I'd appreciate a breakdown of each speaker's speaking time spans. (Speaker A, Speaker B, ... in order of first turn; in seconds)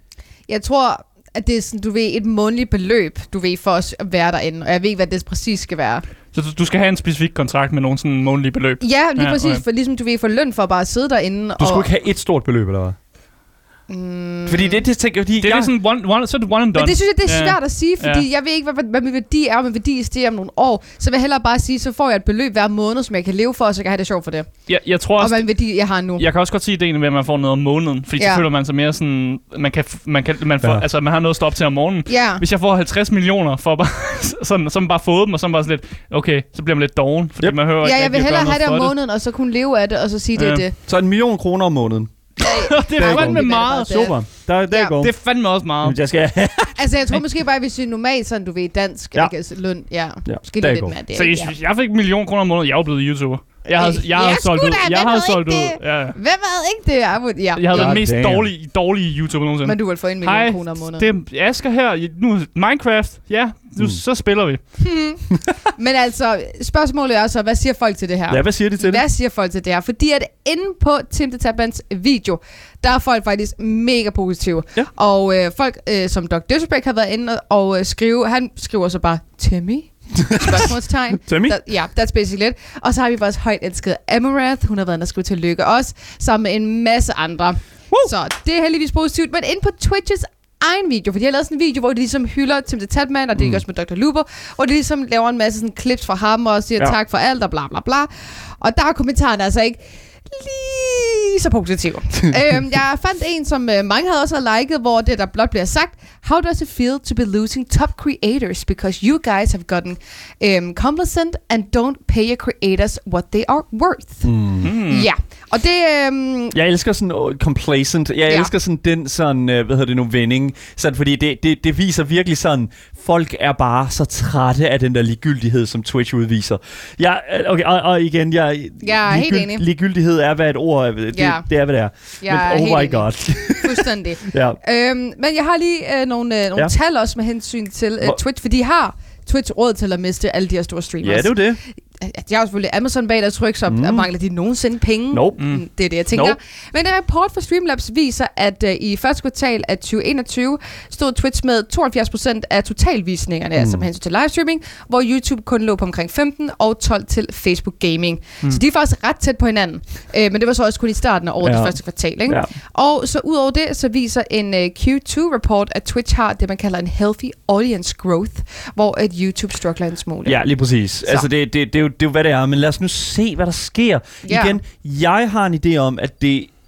Speaker A: 0.5-6.0, 8.8-11.9, 13.9-14.8, 16.7-26.2, 28.2-28.4, 32.1-32.4, 37.8-40.7, 42.4-44.2, 46.8-51.5, 53.7-58.0, 59.6-61.1, 64.8-116.5, 128.8-129.6, 131.1-131.5, 132.2-170.4, 174.2-174.6
Speaker B: 6.3-9.6, 15.4-18.2, 24.7-38.9, 40.4-40.6, 42.4-44.2, 45.0-46.0, 51.1-56.2, 57.5-64.8, 114.6-115.1, 145.4-145.6
Speaker C: 11.6-13.0, 14.4-15.7, 30.6-30.9, 40.9-45.1, 45.8-46.8, 50.2-51.0, 57.7-58.5, 68.3-69.0, 80.3-80.6, 81.2-81.5, 114.2-114.7, 116.5-134.6, 141.0-141.6, 143.7-144.1, 145.1-145.4, 146.1-146.4, 153.6-153.8, 161.4-162.5, 170.2-176.5